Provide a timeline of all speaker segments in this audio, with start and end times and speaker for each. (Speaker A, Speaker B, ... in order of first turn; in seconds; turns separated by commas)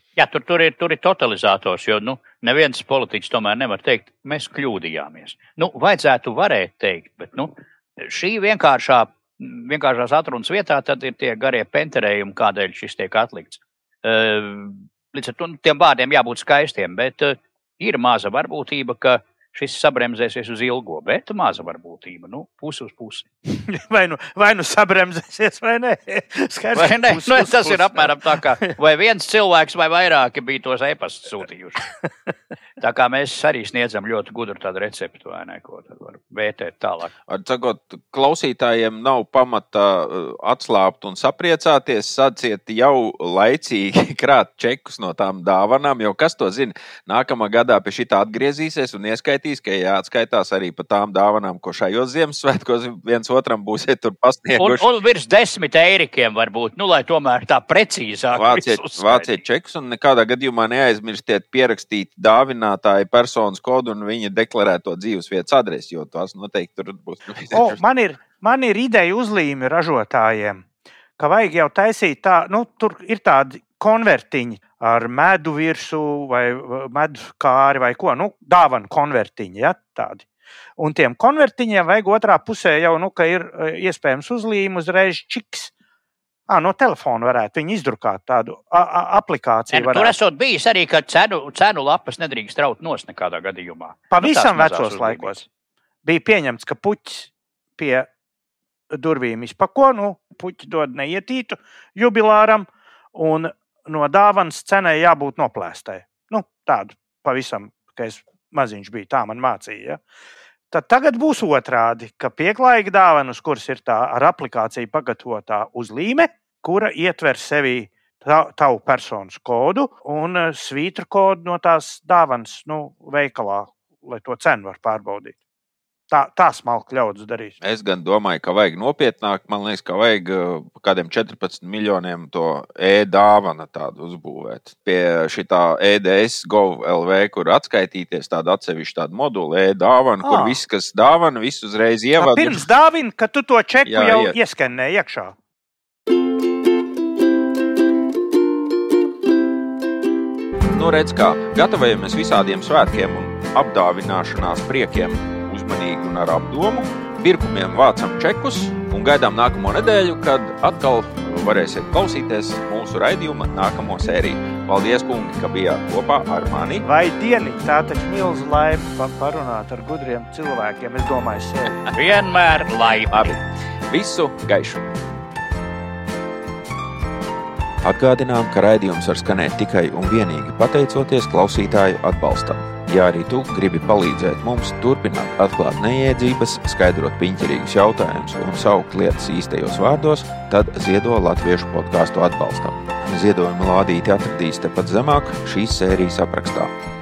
Speaker A: 0.2-23.3, Speaker B: 23.5-28.2, Speaker A: 26.8-31.9, Speaker A: 32.8-37.1, Speaker C: 37.3-54.9, Speaker A: 54.6-59.4, Speaker C: 58.3-67.8, Speaker B: 67.5-70.6, Speaker B: 71.2-80.2, Speaker B: 80.8-85.7, Speaker B: 86.5-90.2, Speaker A: 89.7-95.4, Speaker B: 94.1-95.4, Speaker B: 96.0-98.1, Speaker B: 98.9-110.0, Speaker B: 110.7-125.4, Speaker B: 126.1-127.6, Speaker C: 127.6-142.6, Speaker B: 140.2-140.6, Speaker B: 142.2-145.3, Speaker C: 143.9-144.3, Speaker C: 150.7-166.8, Speaker B: 166.8-171.8, Speaker A: 171.9-173.4, Speaker C: 173.9-174.8, Speaker D: 177.8-196.7